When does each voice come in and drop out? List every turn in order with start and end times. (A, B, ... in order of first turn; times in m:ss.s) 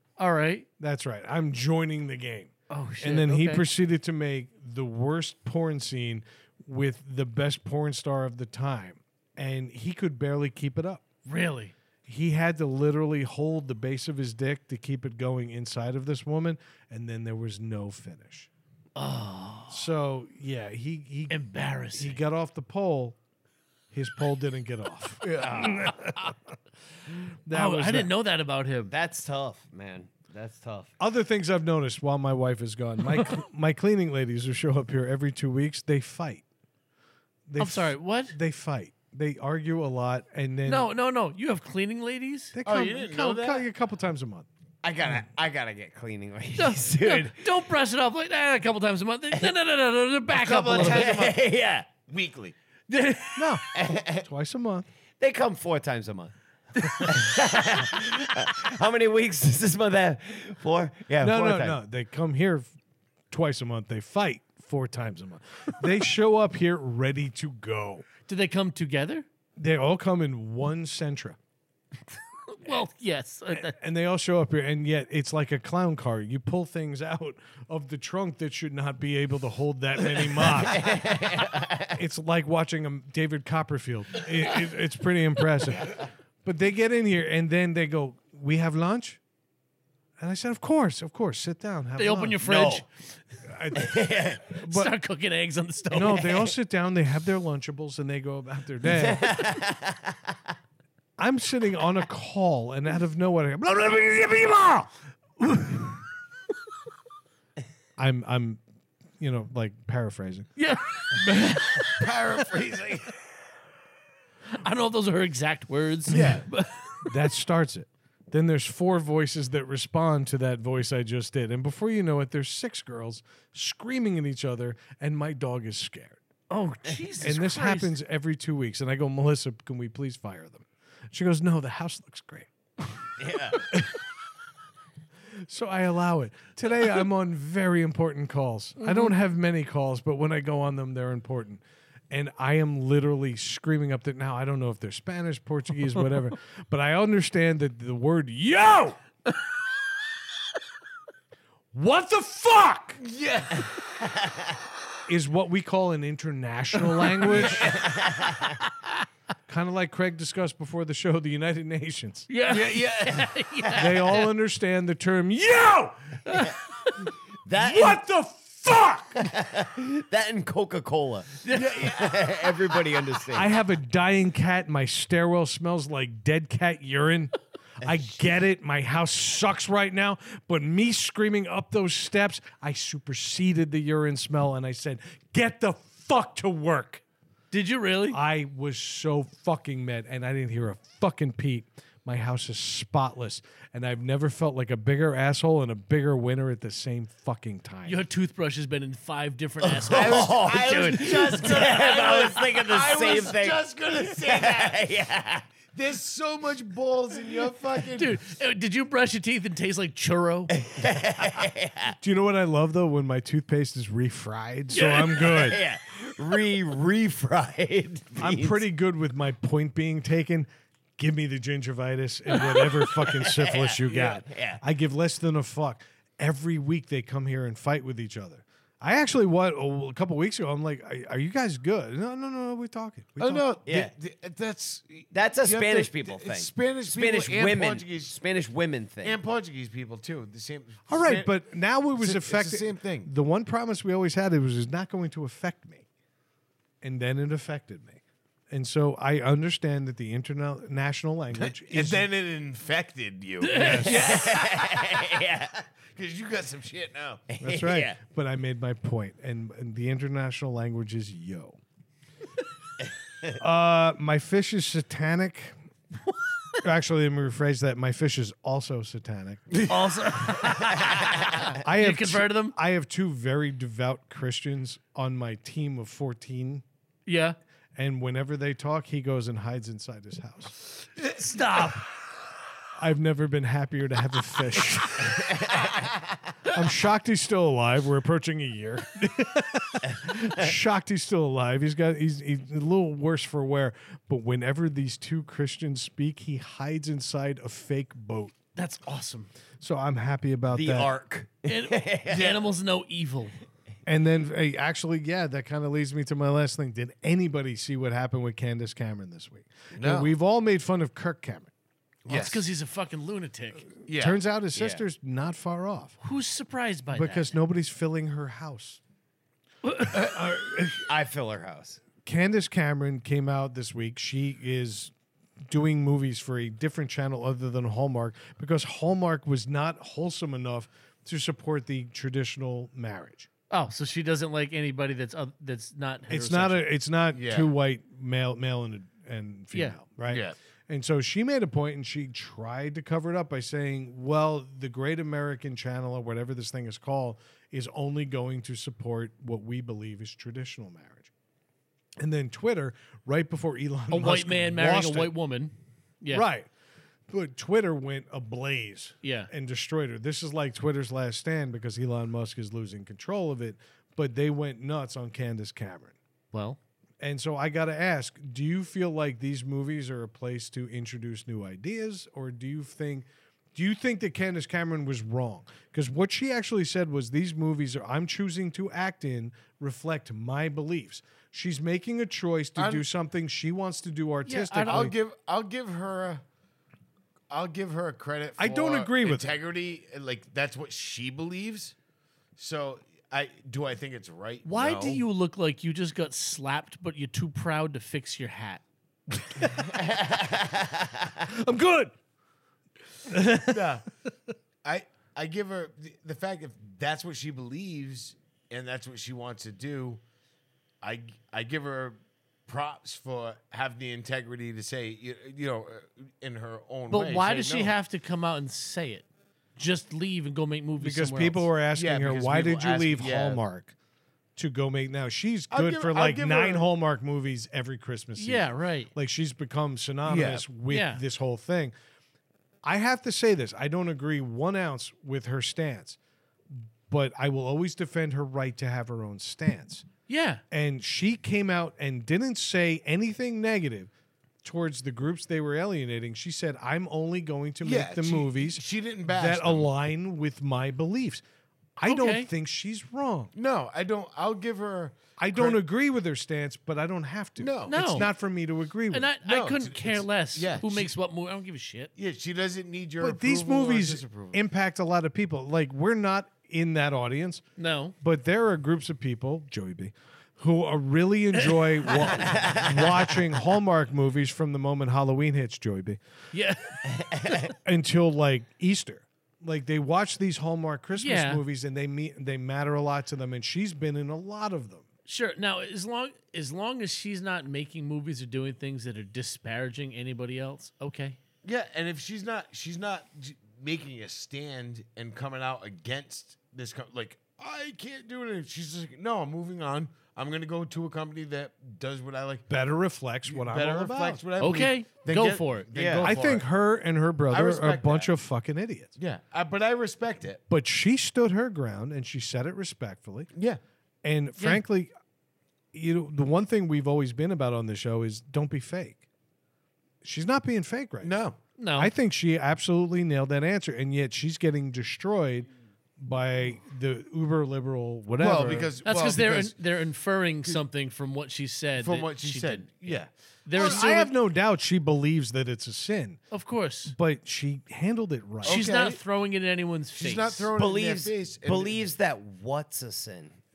0:00.2-0:00.7 A
0:00.8-0:11.0 B
0:02.7-0:03.6 A
0:11.2-0:11.7 A
0:12.0-0:18.5 B
0:19.0-0:19.9 A
0:19.7-0:21.4 B
0:21.3-0:22.2 A
0:21.9-0:23.2 B
0:23.9-0:26.3 B
0:25.2-0:25.8 C
0:25.6-0:26.3 A
0:27.1-0:28.1 B
0:27.5-0:28.9 A
0:28.9-0:30.9 D
0:31.0-0:36.4 B
0:37.5-0:40.9 B
0:37.6-0:38.4 A
0:40.6-0:42.6 A
0:42.5-0:44.4 B
0:42.6-0:43.6 C
0:44.8-0:47.4 D
0:46.6-0:51.2 A
0:50.3-0:51.4 C
0:50.8-0:51.9 D
0:52.0-0:52.5 C
0:52.9-0:53.6 A
0:53.4-0:54.8 B
0:53.7-0:54.3 D
0:55.2-0:56.3 D
0:57.0-1:01.8 D
1:01.2-1:02.7 B
1:03.3-1:08.0 B
1:08.3-1:09.2 A
1:09.6-1:11.4 B
1:12.5-1:13.8 A
1:13.5-1:21.0 B
1:20.7-1:22.0 D
1:21.9-1:29.2 B
1:30.2-1:32.8 B
1:32.0-1:32.9 A
1:33.4-1:34.9 B
1:33.8-1:34.4 D
1:34.6-1:36.4 A
1:35.9-1:39.5 B
1:36.0-1:36.4 D
1:39.0-1:40.2 D
1:41.2-1:44.9 B
1:48.0-1:48.6 B
1:49.2-1:50.5 B
1:50.6-1:52.1 A
1:51.8-1:53.1 C
1:54.6-1:57.1 A
1:56.1-1:56.4 C
1:57.0-2:06.2 B
2:06.5-2:07.9 A
2:07.2-2:12.5 B
2:13.2-2:13.7 D
2:13.7-2:14.0 B
2:15.4-2:29.0 B
2:18.8-2:19.1 A
2:31.7-2:33.0 B
2:33.0-2:33.7 C
2:35.1-2:37.7 B
2:37.6-2:38.6 D
2:39.5-2:42.3 B
2:42.3-2:44.2 A
2:42.5-2:43.3 C
2:43.8-2:46.3 B
2:46.2-2:46.6 A
2:47.4-2:48.0 D
2:47.6-2:49.2 B
2:49.2-2:53.5 D
2:51.4-2:51.7 A
2:51.5-2:52.5 C
2:53.3-3:07.0 B
3:07.5-3:08.2 A
3:08.1-3:18.0 B
3:17.8-3:21.4 A
3:19.6-3:25.5 D
3:19.9-3:24.9 C
3:25.7-3:28.2 C
3:28.0-3:30.5 A
3:30.5-3:32.0 D
3:32.0-3:35.6 B
3:34.7-3:35.5 A
3:35.2-3:38.6 D
3:38.2-3:53.4 B
3:42.4-3:44.6 D
3:43.9-3:44.2 C
3:53.2-3:58.2 C
3:53.6-3:53.9 D
3:55.1-3:59.2 D
3:59.0-4:01.3 C
4:00.9-4:05.8 B
4:02.0-4:03.1 C
4:06.8-4:12.1 B
4:11.3-4:15.2 C
4:13.4-4:14.0 A
4:13.6-4:14.0 B
4:13.8-4:15.6 D
4:15.9-4:17.2 C
4:17.3-4:18.0 D
4:17.4-4:21.6 B
4:23.4-4:25.5 B
4:26.6-4:29.6 B
4:29.7-4:32.6 A
4:31.6-4:36.6 B
4:37.0-4:37.4 A
4:37.8-4:40.5 B
4:41.0-4:41.8 A
4:42.8-4:45.5 B
4:46.5-4:58.4 B
4:58.6-4:59.3 A
4:59.6-5:00.9 B
5:00.5-5:02.3 D
5:01.4-5:03.3 A
5:02.1-5:02.4 C
5:03.8-5:11.5 B
5:09.7-5:10.1 C
5:12.0-5:12.4 C
5:12.1-5:13.7 A
5:13.9-5:14.2 C
5:13.9-5:15.9 B
5:14.5-5:14.8 D
5:16.0-5:17.3 A
5:16.9-5:18.8 B
5:19.6-5:20.0 A
5:19.9-5:20.9 B
5:20.9-5:21.8 D
5:22.0-5:24.9 B
5:25.5-5:33.3 B
5:33.5-5:36.7 A
5:36.1-5:51.1 B
5:37.1-5:37.5 C
5:40.1-5:40.3 C
5:52.0-5:55.1 B
5:53.9-5:56.2 A
5:56.1-5:56.5 B
5:57.1-6:05.9 B
5:59.0-5:59.3 A
6:06.3-6:06.6 A
6:07.0-6:24.9 B
6:22.6-6:22.8 C
6:24.2-6:24.9 A
6:24.6-6:26.2 C
6:27.3-6:31.7 C
6:28.4-6:29.3 B
6:32.4-6:35.0 C
6:34.4-6:38.6 A
6:39.4-6:39.7 B
6:39.7-6:41.1 D
6:41.2-6:41.9 B
6:43.1-6:43.6 B
6:43.4-6:43.8 C
6:44.6-6:50.0 C
6:50.8-6:57.7 C
6:56.9-7:01.5 A
7:00.8-7:03.7 B
7:01.7-7:03.4 C
7:04.4-7:11.7 B
7:05.5-7:06.6 C
7:08.2-7:08.9 A
7:10.0-7:10.4 C
7:10.7-7:11.0 A
7:12.6-7:16.0 B
7:16.6-7:19.8 B
7:20.1-7:20.4 A
7:20.5-7:23.9 B
7:24.4-7:31.2 B
7:27.6-7:29.7 C
7:31.8-7:33.3 B
7:31.8-7:32.3 A
7:33.3-7:35.6 C
7:35.2-7:39.1 B
7:37.4-7:38.1 C
7:37.7-7:38.1 A
7:38.9-7:41.9 A
7:39.2-7:40.9 C
7:42.0-7:44.4 C
7:43.0-7:47.4 B
7:47.6-7:47.9 A
7:48.0-7:56.0 B
7:52.2-7:52.7 D
7:56.3-7:57.5 A
7:57.6-8:04.8 B
8:01.0-8:01.4 A
8:05.0-8:11.2 A
8:11.4-8:22.5 C
8:22.5-8:24.2 B
8:23.2-8:26.5 C
8:24.4-8:25.7 A
8:25.7-8:26.1 D
8:26.0-8:28.9 B
8:27.3-8:28.1 C
8:29.0-8:30.4 C
8:30.5-8:33.3 B
8:33.3-8:33.6 C
8:34.0-8:34.9 B
8:35.7-8:39.0 B
8:40.0-8:41.2 B
8:41.0-8:41.4 C
8:41.6-8:41.9 A
8:41.8-8:48.7 B
8:48.2-8:49.6 C
8:48.8-8:54.1 A
8:51.8-8:53.1 C
8:53.5-8:56.2 B
8:56.3-8:56.9 A
8:56.9-8:58.6 B
8:58.4-8:59.0 C
8:58.4-9:00.5 A
9:00.0-9:01.9 C
9:00.6-9:03.4 D